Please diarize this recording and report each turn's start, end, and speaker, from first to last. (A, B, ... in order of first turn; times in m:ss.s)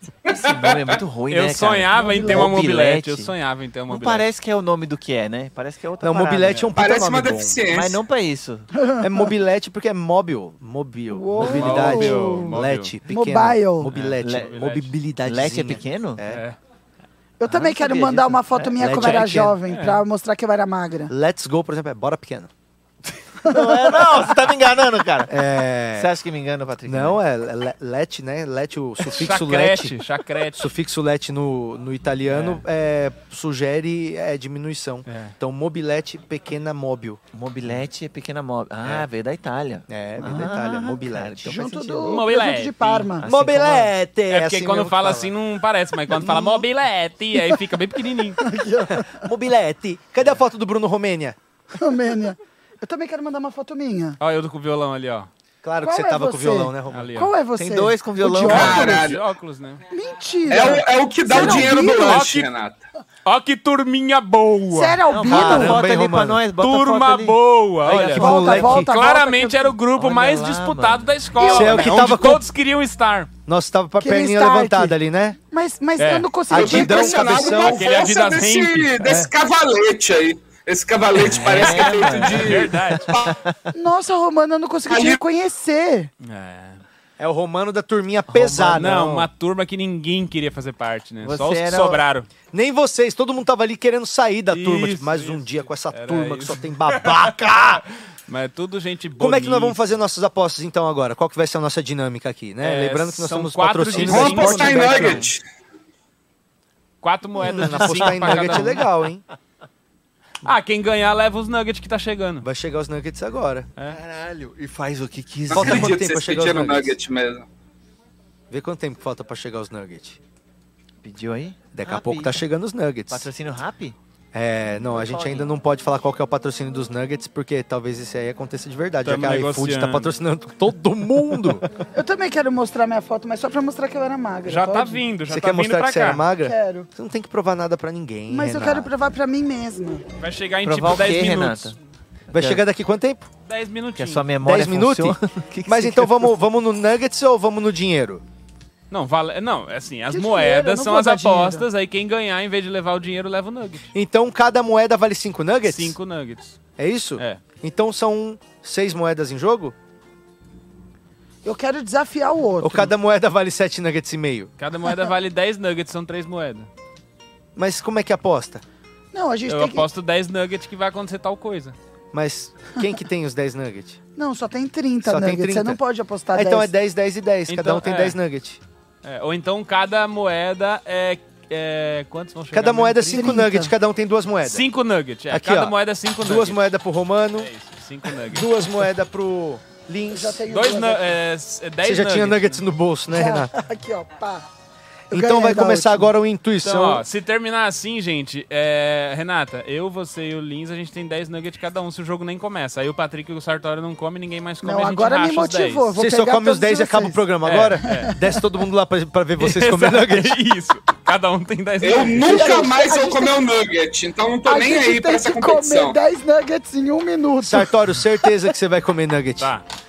0:00.2-0:01.0 A
0:00.4-0:03.3 B
0:01.3-0:04.3 C
0:01.9-0:02.5 D
0:03.9-0:06.7 B
0:06.0-0:07.6 E
0:06.7-0:08.0 A
0:07.7-0:08.7 B
0:08.7-0:09.3 D
0:09.0-0:16.4 E
0:11.1-0:12.6 D
0:11.4-0:12.9 C
0:13.1-0:13.9 D
0:13.9-0:14.9 C
0:14.2-0:14.6 B
0:15.2-0:16.2 B
0:16.3-0:16.6 C
0:17.4-0:21.1 D
0:17.5-0:19.5 B
0:18.8-0:19.6 E
0:19.7-0:20.0 C
0:21.1-0:22.5 E
0:23.4-0:27.2 B
0:23.4-0:23.7 D
0:25.3-0:26.1 E
0:26.8-0:29.9 E
0:29.0-0:30.7 C
0:30.6-0:37.2 E
0:35.1-0:35.3 C
0:37.3-0:42.2 B
0:39.9-0:41.6 E
0:41.4-0:43.4 D
0:42.1-0:43.1 C
0:43.2-0:45.3 E
0:43.3-0:43.7 B
0:44.3-0:48.4 C
0:46.1-0:46.6 E
0:48.4-0:49.2 D
0:48.9-0:51.4 E
0:51.7-0:54.2 D
0:54.2-0:55.3 C
0:55.6-0:57.1 E
0:55.8-0:59.1 D
0:56.9-0:57.3 C
0:57.6-0:58.9 B
0:58.4-0:59.2 A
0:58.5-0:59.8 C
0:59.9-1:02.2 D
1:00.5-1:02.8 A
1:01.4-1:02.5 C
1:03.2-1:05.0 C
1:04.7-1:05.8 D
1:05.1-1:08.6 B
1:05.2-1:06.4 E
1:06.6-1:13.3 C
1:07.8-1:08.9 E
1:07.9-1:09.7 D
1:10.0-1:11.1 B
1:11.4-1:12.1 D
1:11.4-1:12.4 E
1:13.5-1:15.4 E
1:14.0-1:15.0 D
1:15.5-1:17.6 D
1:16.0-1:16.3 C
1:16.5-1:17.8 E
1:16.5-1:22.8 A
1:17.8-1:19.1 C
1:19.0-1:19.3 E
1:21.1-1:23.5 B
1:21.4-1:23.2 C
1:23.7-1:26.1 D
1:24.8-1:25.2 A
1:26.2-1:26.8 C
1:27.2-1:29.1 E
1:28.3-1:29.3 B
1:28.7-1:32.3 C
1:31.2-1:32.0 B
1:32.5-1:37.8 E
1:34.5-1:39.8 C
1:39.2-1:45.3 E
1:42.6-1:45.3 C
1:44.0-1:45.4 A
1:47.0-1:48.8 C
1:47.4-1:49.2 E
1:47.6-1:48.7 B
1:50.4-1:52.5 C
1:52.4-1:53.7 E
1:53.8-1:55.9 B
1:55.5-1:57.5 A
1:55.5-1:57.0 E
1:58.5-2:00.2 E
2:01.0-2:02.4 B
2:01.7-2:03.3 E
2:03.1-2:04.0 B
2:04.3-2:11.6 E
2:04.9-2:05.5 B
2:09.0-2:10.1 C
2:11.9-2:15.0 D
2:14.5-2:16.2 C
2:15.3-2:18.9 E
2:16.4-2:16.9 D
2:18.3-2:20.0 D
2:20.2-2:21.8 C
2:20.6-2:21.8 B
2:22.3-2:22.6 B
2:22.3-2:23.3 E
2:23.4-2:24.3 C
2:24.0-2:26.4 B
2:24.4-2:28.2 E
2:28.9-2:33.9 C
2:30.1-2:31.6 D
2:33.9-2:36.0 E
2:35.6-2:36.6 C
2:36.8-2:39.7 E
2:41.4-2:42.9 D
2:42.6-2:44.5 E
2:44.6-2:46.7 C
2:47.6-2:48.6 E
2:49.1-2:49.9 D
2:49.5-2:51.8 C
2:52.1-2:54.0 E
2:54.2-2:56.7 D
2:55.0-2:55.8 E
2:56.3-2:58.6 E
2:57.5-2:58.2 C
2:59.0-3:03.3 C
3:02.5-3:04.6 E
3:03.1-3:03.7 D
3:04.4-3:06.6 C
3:05.3-3:07.5 E
3:07.4-3:08.5 C
3:08.2-3:10.4 E
3:10.1-3:11.1 D
3:10.5-3:12.6 C
3:11.8-3:13.5 E
3:13.1-3:14.4 D
3:15.1-3:16.1 D
3:15.1-3:17.0 E
3:16.6-3:25.9 C
3:24.6-3:27.2 D
3:26.0-3:30.4 E
3:27.4-3:28.1 C
3:27.8-3:28.4 D
3:29.4-3:32.6 C
3:31.8-3:36.0 A
3:32.2-3:33.4 D
3:34.4-3:38.3 D
3:37.4-3:39.5 E
3:39.4-3:39.6 C